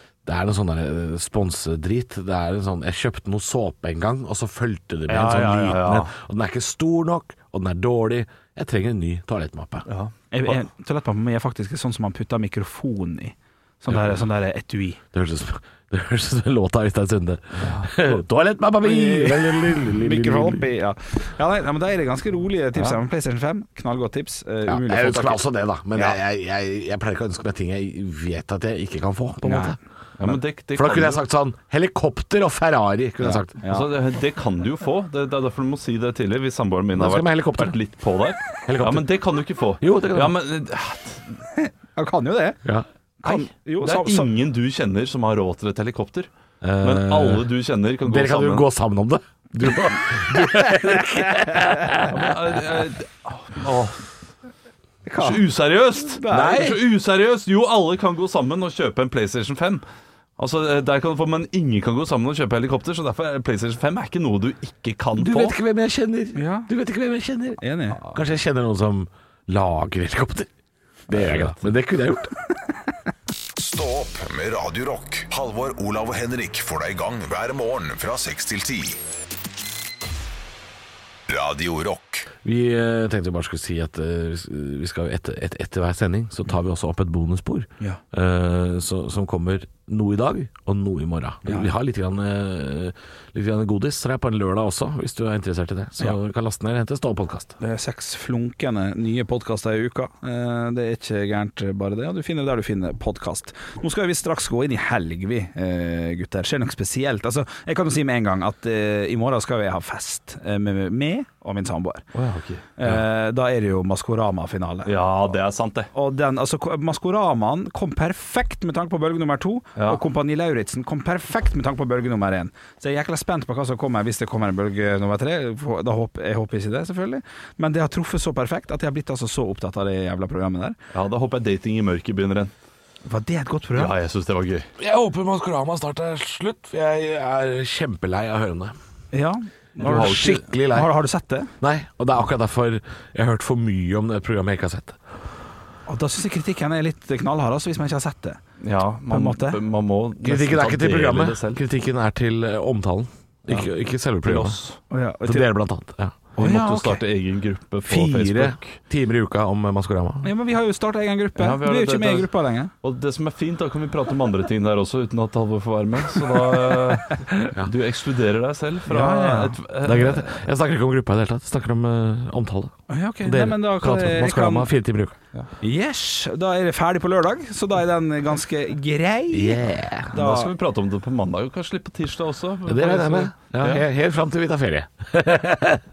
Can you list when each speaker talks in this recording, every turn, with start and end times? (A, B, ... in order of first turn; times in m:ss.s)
0:00.2-0:09.9 A
0:05.1-0:05.9 B
0:05.6-0:06.1 C
0:09.9-0:10.1 C
0:10.3-0:15.0 B
0:15.1-0:20.7 A
0:17.6-0:17.9 C
0:18.8-0:25.4 B
0:24.7-0:29.8 A
0:25.9-0:26.2 B
0:29.4-0:29.8 B
0:30.2-0:31.2 C
0:30.3-0:33.6 A
0:33.2-0:33.9 B
0:33.6-0:41.3 C
0:36.9-0:37.8 A
0:38.6-0:39.1 A
0:39.8-0:40.4 A
0:41.6-0:42.6 B
0:43.2-0:44.3 B
0:43.2-0:46.3 C
0:46.6-0:47.5 A
0:46.8-0:48.7 C
0:48.0-0:52.4 A
0:50.7-0:51.6 B
0:52.1-0:54.0 C
0:55.0-0:55.5 B
0:55.2-0:59.8 C
0:56.0-0:56.7 B
0:56.3-0:56.8 A
1:00.4-1:05.6 C
1:05.2-1:10.5 A
1:06.4-1:06.7 B
1:07.6-1:08.1 B
1:11.1-1:12.4 A
1:11.2-1:11.5 C
1:13.6-1:19.0 D
1:21.3-1:22.3 D
1:22.4-1:37.6 A
1:31.5-1:31.7 B
1:37.6-1:52.0 B
1:52.1-1:52.7 C
1:52.8-1:54.9 B
1:54.8-1:55.9 C
1:55.9-2:10.8 B
1:59.8-2:00.0 C
2:10.9-2:12.5 C
2:13.1-2:13.9 B
2:13.8-2:14.7 C
2:14.8-2:18.7 A
2:19.1-2:21.5 B
2:19.8-2:20.9 A
2:19.8-2:20.4 C
2:21.6-2:25.0 A
2:25.9-2:28.4 B
2:28.6-2:31.6 C
2:29.1-2:29.6 B
2:30.2-2:34.6 A
2:34.2-2:34.8 C
2:34.9-2:35.5 B
2:35.2-2:36.3 A
2:36.4-2:38.8 C
2:36.4-2:37.0 B
2:37.9-2:40.3 A
2:40.2-2:42.7 B
2:41.4-2:42.3 C
2:42.8-2:50.4 C
2:48.9-2:49.6 B
2:49.8-2:55.2 A
2:52.9-2:54.7 B
2:55.6-3:00.5 B
2:59.3-3:00.2 A
3:00.1-3:03.9 C
3:02.7-3:05.8 A